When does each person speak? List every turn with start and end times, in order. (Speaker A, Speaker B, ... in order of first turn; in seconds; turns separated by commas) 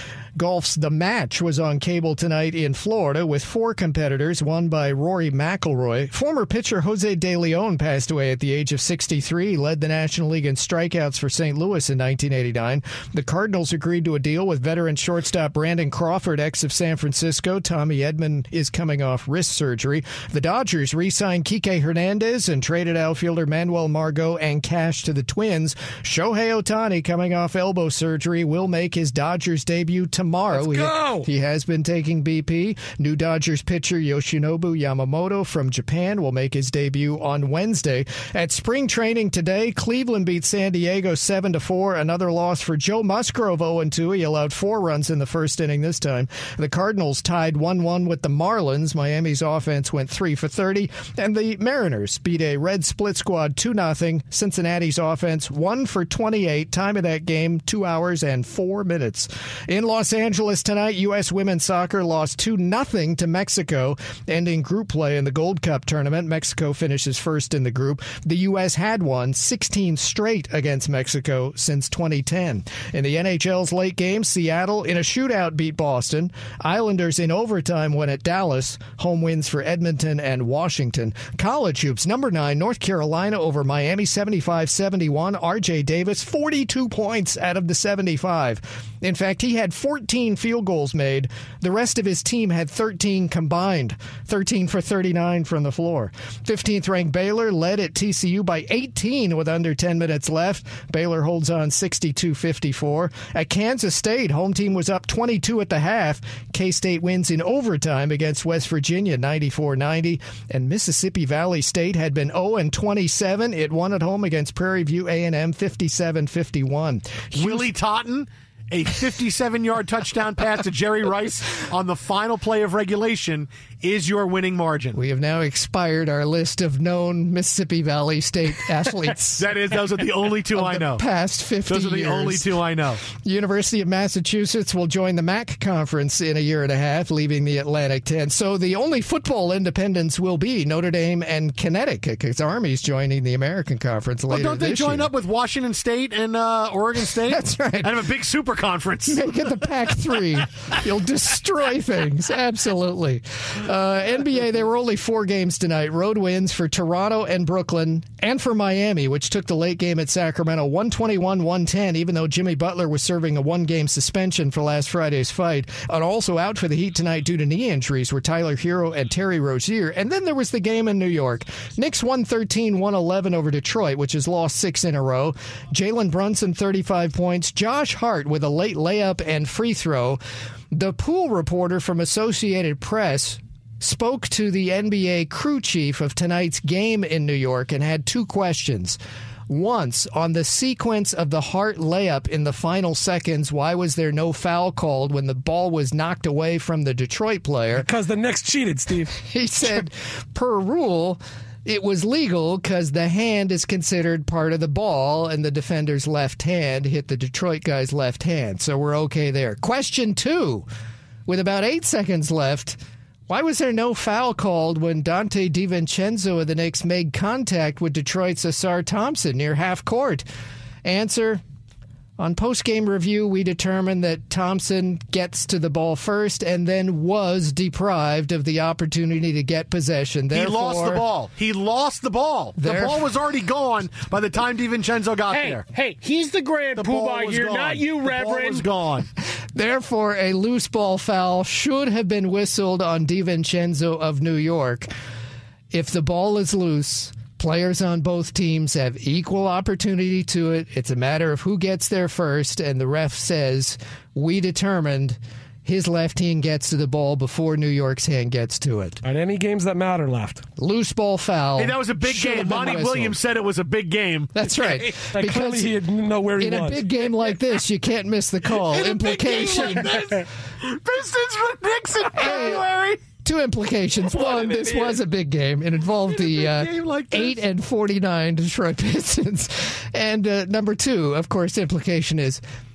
Speaker A: 0.4-117.7, Speaker B: 30.5-31.1, Speaker C: 30.7-31.2, Speaker B: 117.3-125.0, Speaker A: 125.0-129.5, Speaker B: 129.4-131.1, Speaker A: 130.5-145.1, Speaker B: 131.7-133.0, Speaker B: 144.3-149.2, Speaker A: 147.1-148.1, Speaker A: 149.1-180.2, Speaker A: 180.7-189.0, Speaker A: 189.5-197.9, Speaker C: 197.8-199.1, Speaker A: 199.2-210.7, Speaker A: 211.3-220.3, Speaker A: 220.8-221.4, Speaker A: 222.2-231.0, Speaker B: 230.3-235.7, Speaker A: 232.6-233.1, Speaker D: 235.3-238.7, Speaker B: 236.8-239.1, Speaker A: 239.6-244.9, Speaker A: 245.7-259.0, Speaker C: 259.0-260.5, Speaker A: 260.6-263.2, Speaker B: 261.6-264.9, Speaker A: 264.4-265.8, Speaker C: 265.1-266.9, Speaker A: 266.4-270.0, Speaker B: 268.5-273.0, Speaker A: 272.1-272.7, Speaker A: 273.2-282.4, Speaker B: 274.1-275.0, Speaker B: 276.1-277.4